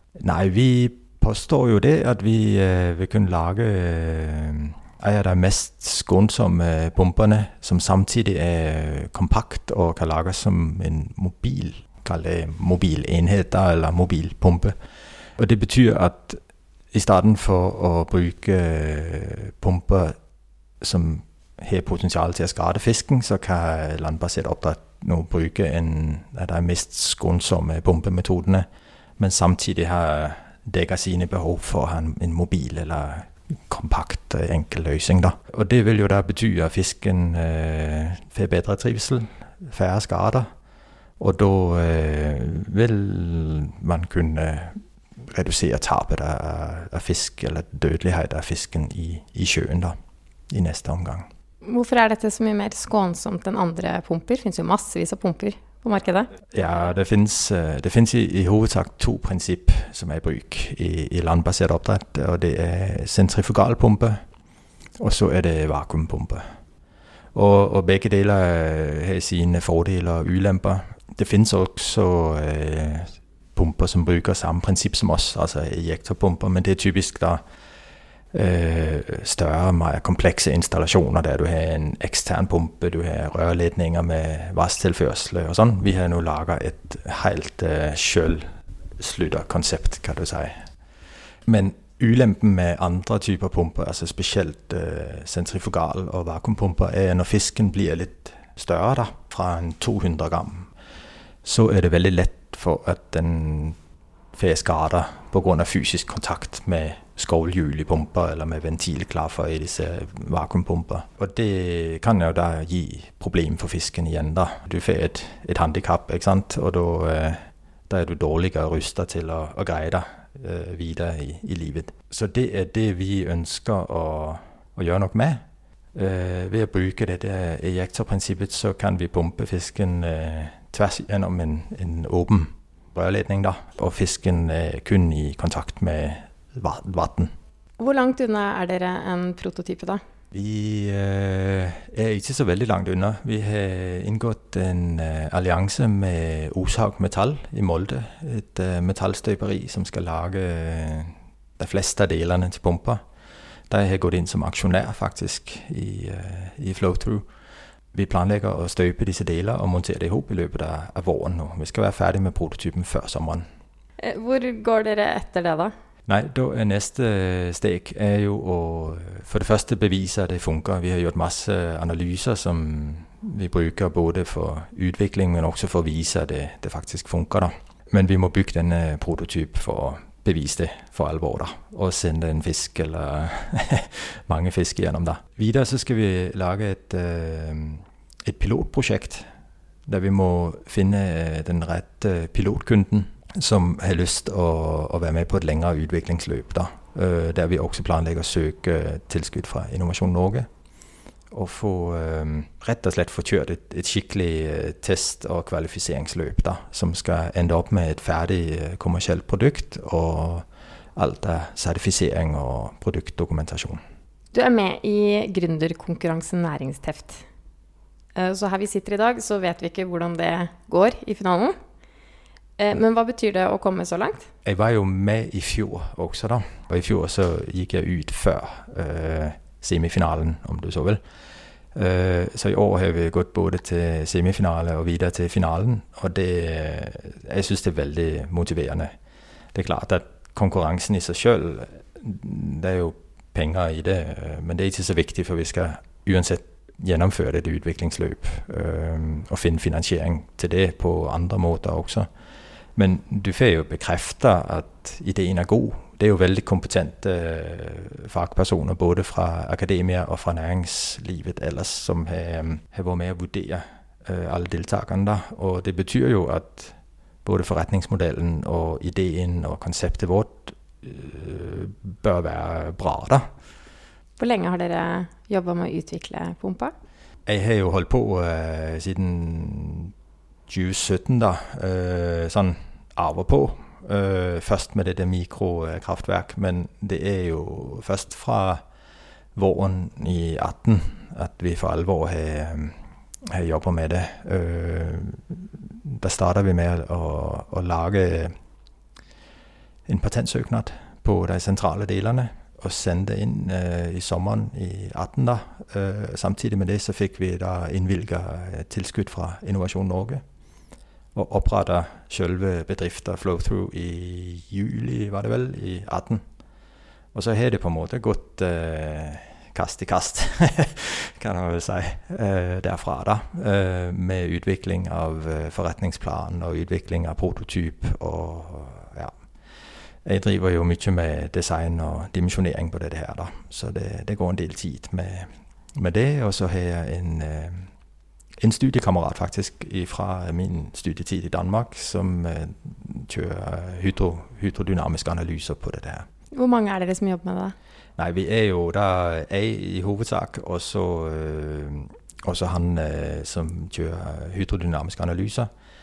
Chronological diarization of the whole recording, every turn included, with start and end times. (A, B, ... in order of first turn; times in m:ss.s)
0:00.2-0:14.8 A
0:15.4-0:16.4 A
0:16.9-0:20.2 A
0:20.8-0:28.7 A
0:29.2-0:40.5 A
0:41.2-0:49.9 A
0:50.5-0:51.3 A
0:51.6-0:56.3 B
0:56.5-1:04.2 A
1:05.0-1:06.4 A
1:07.3-1:17.4 A
1:18.3-1:28.4 A
1:29.0-1:30.6 A
1:31.5-1:40.7 A
1:41.4-1:43.8 A
1:44.3-2:05.4 A
2:05.9-2:17.3 A
2:17.8-2:20.0 B
2:20.3-2:33.0 A
2:33.7-2:37.2 A
2:37.9-2:43.4 A
2:44.0-2:45.7 B
2:46.1-3:09.2 A
3:09.9-3:20.5 A
3:21.3-3:33.8 A
3:34.3-3:37.2 B
3:38.2-3:41.6 B
3:42.6-3:44.3 B
3:44.4-3:51.0 A
3:51.8-3:58.9 A
3:59.5-4:12.1 A
4:12.8-4:33.2 A
4:34.2-4:36.7 B
4:37.2-4:39.9 A
4:40.5-4:48.6 A
4:49.4-4:52.8 A
4:53.3-4:58.3 A
4:59.9-5:10.2 A
5:11.1-5:16.2 A
5:17.1-5:29.1 A
5:30.0-5:37.7 A
5:38.4-5:46.1 A
5:46.3-5:47.6 B
5:48.0-5:55.5 A